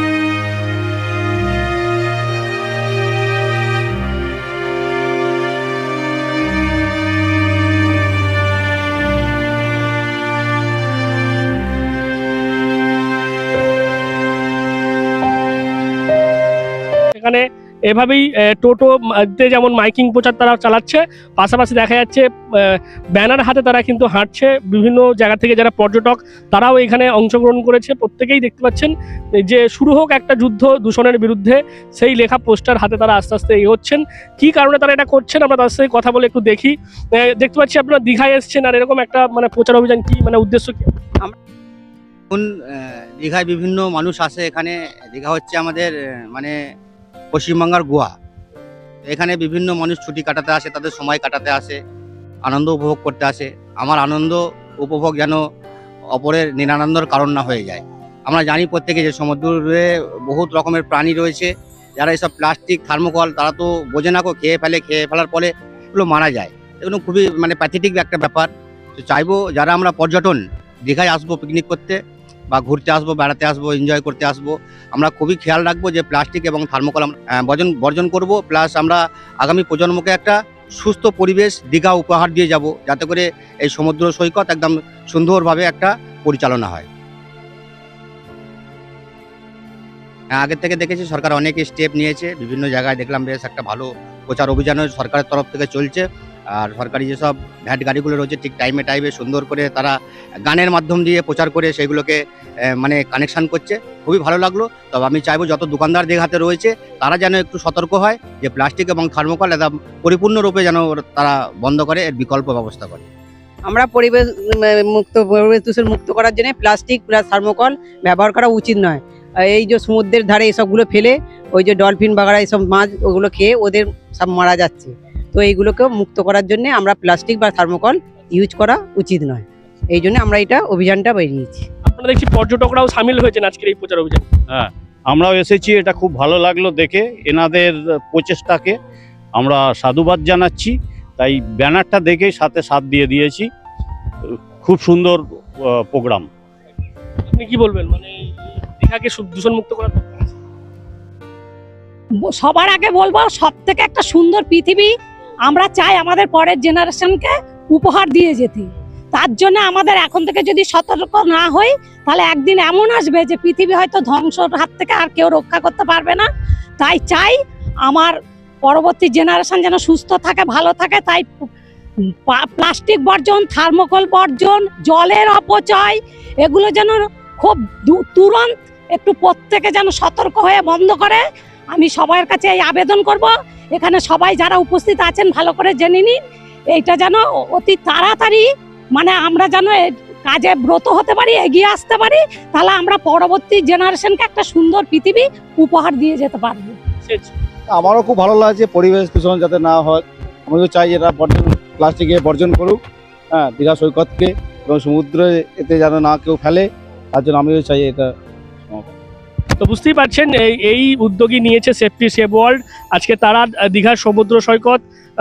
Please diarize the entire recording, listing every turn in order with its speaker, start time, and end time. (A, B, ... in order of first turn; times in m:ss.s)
0:17.2-0:40.9 A
0:42.3-0:46.6 B
0:47.3-0:48.1 B
0:49.1-0:51.8 B
0:52.5-0:55.4 B
0:56.2-1:12.0 B
1:12.5-1:26.9 B
1:30.4-1:36.0 B
1:36.6-1:39.9 B
1:40.5-1:42.2 B
1:42.8-1:53.1 B
1:53.7-2:11.7 C
2:11.9-2:14.2 A
2:14.5-2:18.8 D
2:19.4-2:23.5 D
2:24.3-2:26.3 D
2:27.3-2:30.3 A
2:32.2-2:34.9 E
2:35.5-2:46.3 E
2:46.8-2:51.5 E
2:52.3-3:06.2 E
3:06.7-3:16.8 E
3:17.0-3:17.3 A
3:17.7-3:22.8 F
3:23.3-3:28.1 F
3:29.6-3:34.8 A